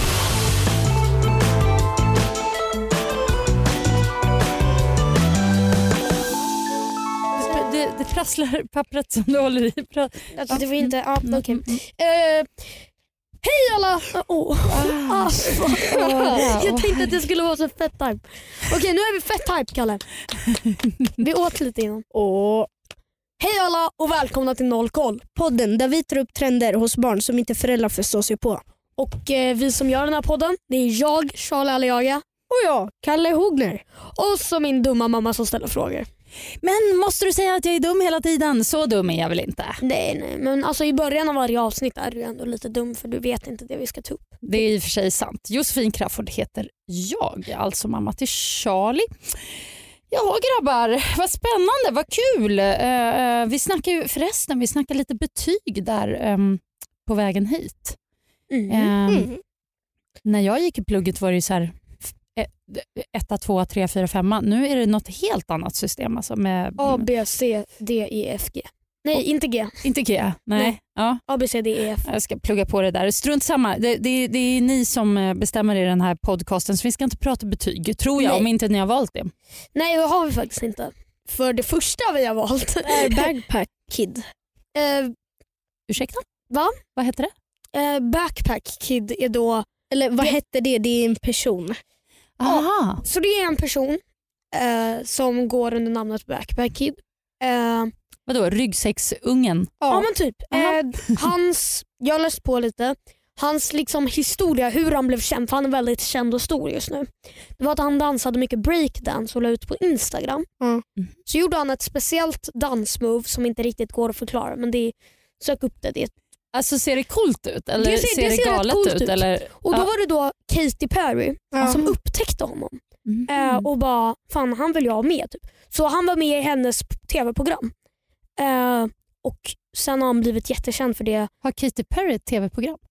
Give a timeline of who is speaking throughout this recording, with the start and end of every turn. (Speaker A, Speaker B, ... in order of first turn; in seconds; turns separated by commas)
Speaker A: 7.4-11.8, Speaker B: 10.3-12.7, Speaker B: 13.4-20.0, Speaker A: 14.7-17.2, Speaker B: 21.2-22.0, Speaker C: 22.1-22.7, Speaker B: 23.4-25.2, Speaker C: 25.4-28.6, Speaker B: 29.0-32.2, Speaker C: 32.5-33.8, Speaker B: 34.1-36.1, Speaker A: 36.6-39.8, Speaker B: 39.8-44.6, Speaker A: 44.4-58.0, Speaker B: 58.5-58.9, Speaker A: 58.7-59.3, Speaker C: 59.1-59.4, Speaker A: 60.2-67.0, Speaker B: 66.8-69.8, Speaker A: 69.8-71.2, Speaker B: 71.3-72.0, Speaker A: 72.0-79.3, Speaker B: 78.2-78.5, Speaker B: 79.7-83.3, Speaker C: 82.8-84.2, Speaker B: 84.7-85.1, Speaker A: 85.9-86.2, Speaker B: 86.5-86.8, Speaker A: 87.0-87.3, Speaker B: 87.7-89.7, Speaker C: 89.9-91.8, Speaker A: 92.4-93.0, Speaker B: 92.4-94.0, Speaker B: 94.5-97.9, Speaker A: 98.3-99.8, Speaker C: 99.8-100.1, Speaker B: 99.9-110.5, Speaker A: 100.5-100.8, Speaker B: 111.3-116.1, Speaker A: 116.5-119.9, Speaker B: 117.8-127.7, Speaker C: 121.5-121.9, Speaker A: 123.0-123.7, Speaker B: 128.4-131.3, Speaker A: 131.4-132.8